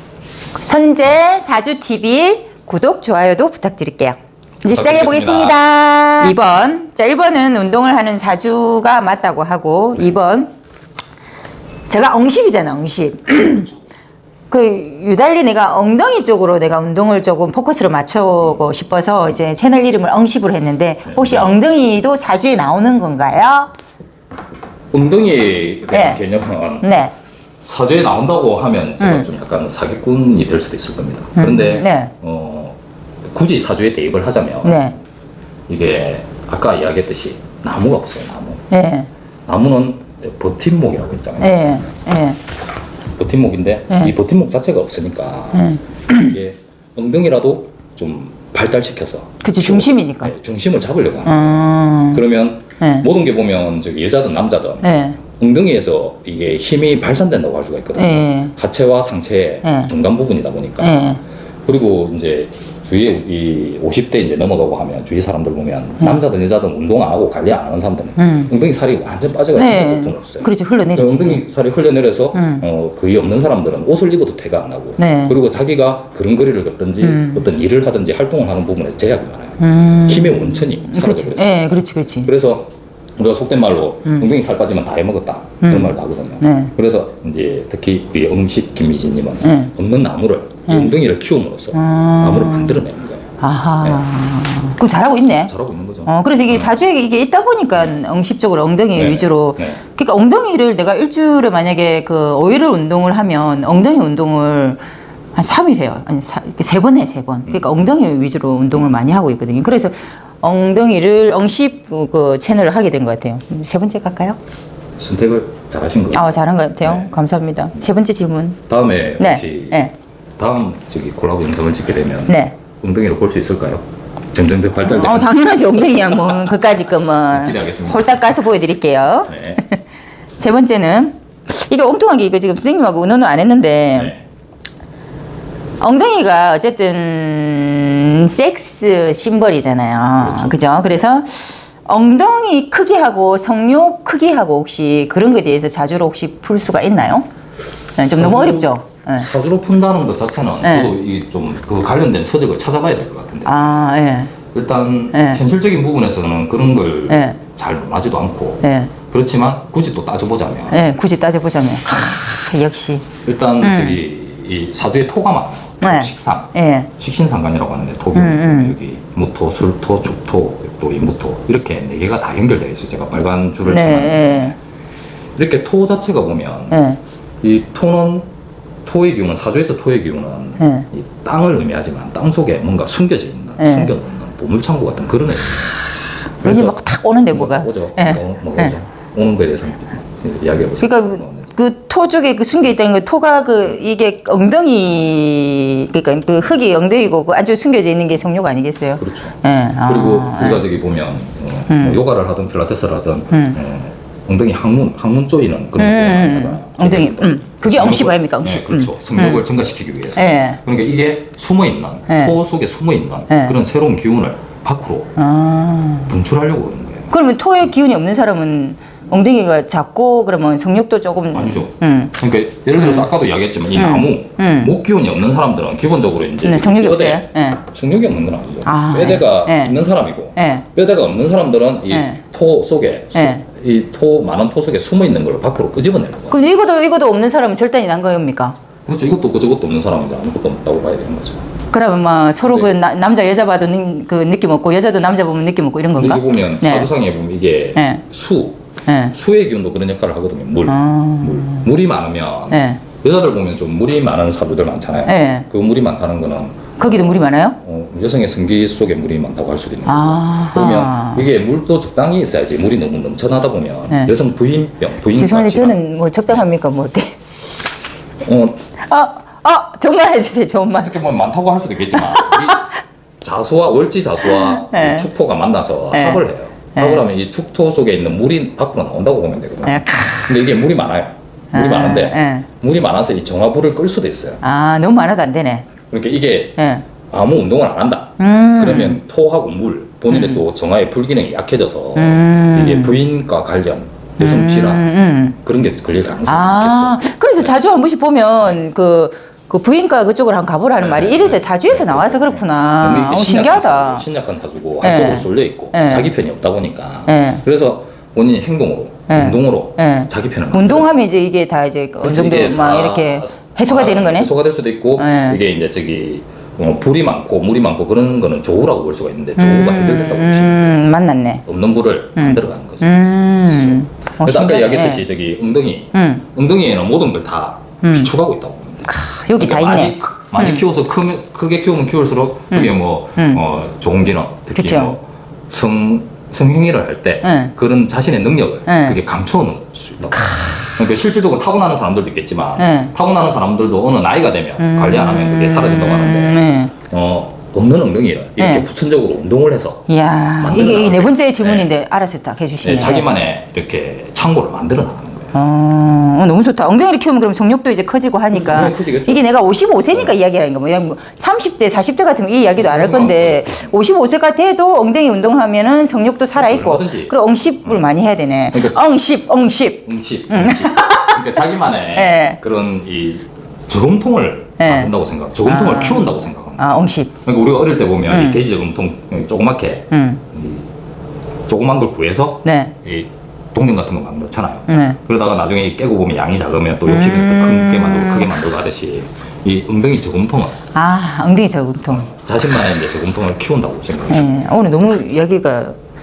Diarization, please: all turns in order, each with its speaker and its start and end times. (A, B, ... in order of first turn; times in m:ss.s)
0:00.6-0:10.5 A
0:04.7-0:05.6 B
0:11.9-0:13.8 A
0:14.5-0:23.7 A
0:21.1-0:21.6 B
0:24.9-0:27.0 B
0:25.9-0:26.2 A
0:26.8-0:27.1 A
0:27.6-0:32.8 B
0:29.0-0:29.3 A
0:31.4-0:32.1 A
0:33.3-0:34.9 B
0:34.6-0:34.9 A
0:35.7-0:38.6 B
0:38.7-0:39.1 A
0:39.5-0:41.8 B
0:41.4-0:42.4 A
0:43.2-1:21.7 B
0:45.5-0:46.4 A
0:49.4-0:50.3 A
0:51.3-0:52.2 A
0:52.8-0:53.1 A
0:54.8-0:55.2 A
0:58.0-0:58.5 A
0:59.6-0:59.9 A
1:00.8-1:01.2 A
1:08.2-1:08.5 A
1:09.6-1:11.4 A
1:12.4-1:12.6 A
1:15.0-1:15.3 A
1:17.0-1:17.4 A
1:19.6-1:22.3 A
1:22.3-1:33.3 B
1:25.6-1:26.7 A
1:29.4-1:29.7 A
1:31.7-1:32.8 A
1:33.4-1:35.5 A
1:35.5-1:36.8 B
1:36.1-1:44.8 A
1:39.0-1:39.8 B
1:45.4-1:54.4 A
1:47.5-1:47.8 B
1:55.0-1:57.1 B
1:56.1-1:58.6 A
1:58.7-1:59.8 B
1:59.2-1:59.9 A
2:00.4-2:08.4 B
2:02.3-2:02.6 A
2:04.8-2:09.8 A
2:09.3-2:09.6 B
2:10.4-2:14.1 A
2:14.0-2:14.2 B
2:15.8-2:27.3 A
2:20.2-2:20.7 B
2:28.0-2:29.3 A
2:28.1-2:33.9 B
2:30.6-2:30.9 A
2:33.5-2:34.3 A
2:34.5-2:40.8 B
2:35.1-2:35.4 A
2:37.1-2:37.4 A
2:38.6-2:38.9 A
2:40.7-2:43.1 A
2:43.2-2:54.6 B
2:43.6-2:44.0 A
2:45.8-2:46.9 A
2:48.2-2:48.8 A
2:53.7-2:54.6 A
2:55.4-2:56.8 B
2:56.7-2:57.0 A
2:57.4-2:58.3 B
2:58.8-3:05.8 B
3:00.6-3:00.9 A
3:03.6-3:03.9 A
3:06.4-3:08.7 A
3:06.4-3:06.8 B
3:07.3-3:11.5 B
3:10.8-3:20.6 A
3:19.0-3:35.1 B
3:21.7-3:22.0 A
3:23.3-3:23.6 A
3:25.8-3:29.4 A
3:30.2-3:30.6 A
3:32.1-3:32.4 A
3:33.3-3:33.6 A
3:35.2-3:36.1 A
3:36.1-3:37.1 B
3:37.1-3:42.1 A
3:41.3-3:56.4 B
3:42.8-3:43.1 A
3:43.8-3:44.7 A
3:46.4-3:47.6 A
3:48.6-3:49.8 A
3:50.4-3:50.7 A
3:51.9-3:52.2 A
3:53.2-3:53.4 A
3:56.3-3:58.6 A
3:58.9-4:01.4 B
4:01.7-4:06.9 A
4:05.9-4:25.8 B
4:07.8-4:08.0 A
4:08.9-4:09.2 A
4:10.7-4:11.7 A
4:12.5-4:12.8 A
4:15.1-4:15.5 A
4:16.8-4:17.6 A
4:19.9-4:21.3 A
4:25.1-4:27.2 A
4:28.2-4:28.6 B
4:28.8-4:31.0 A
4:30.8-4:44.4 B
4:31.9-4:32.8 A
4:34.2-4:35.1 A
4:35.9-4:36.2 A
4:36.8-4:37.1 A
4:39.7-4:40.3 A
4:41.5-4:42.5 A
4:44.4-4:45.7 A
4:45.9-4:46.6 B
4:46.6-4:46.8 A
4:47.1-4:54.9 B
4:48.2-4:49.0 A
4:50.1-4:50.4 A
4:52.0-4:53.0 A
4:54.2-4:55.4 A
4:55.4-4:57.5 B
4:56.3-5:04.0 A
5:00.8-5:10.9 B
5:04.8-5:06.1 A
5:07.1-5:07.4 A
5:09.1-5:14.3 A
5:12.0-5:20.8 B
5:15.0-5:15.4 A
5:19.4-5:21.4 A
5:21.5-5:22.9 B
5:22.2-5:25.0 A
5:23.4-5:49.9 B
5:25.9-5:26.2 A
5:27.8-5:28.1 A
5:28.8-5:30.6 A
5:32.5-5:33.4 A
5:34.6-5:35.0 A
5:37.2-5:37.5 A
5:38.7-5:39.0 A
5:40.2-5:40.6 A
5:42.6-5:42.9 A
5:44.6-5:46.7 A
5:48.4-5:48.7 A
5:49.9-5:53.1 A
5:50.4-5:51.7 B
5:52.6-5:55.3 B
5:55.3-6:12.4 A
5:58.3-5:59.3 B
6:02.6-6:03.7 B
6:06.4-6:07.9 B
6:08.5-6:08.8 B
6:09.8-6:20.7 B
6:14.6-6:14.9 A
6:15.4-6:17.1 A
6:18.1-6:18.4 A
6:19.9-6:20.2 A
6:21.5-6:30.6 B
6:22.4-6:22.7 A
6:24.7-6:25.0 A
6:26.9-6:28.4 A
6:30.7-6:32.1 A
6:31.9-6:34.4 B
6:34.1-6:35.8 A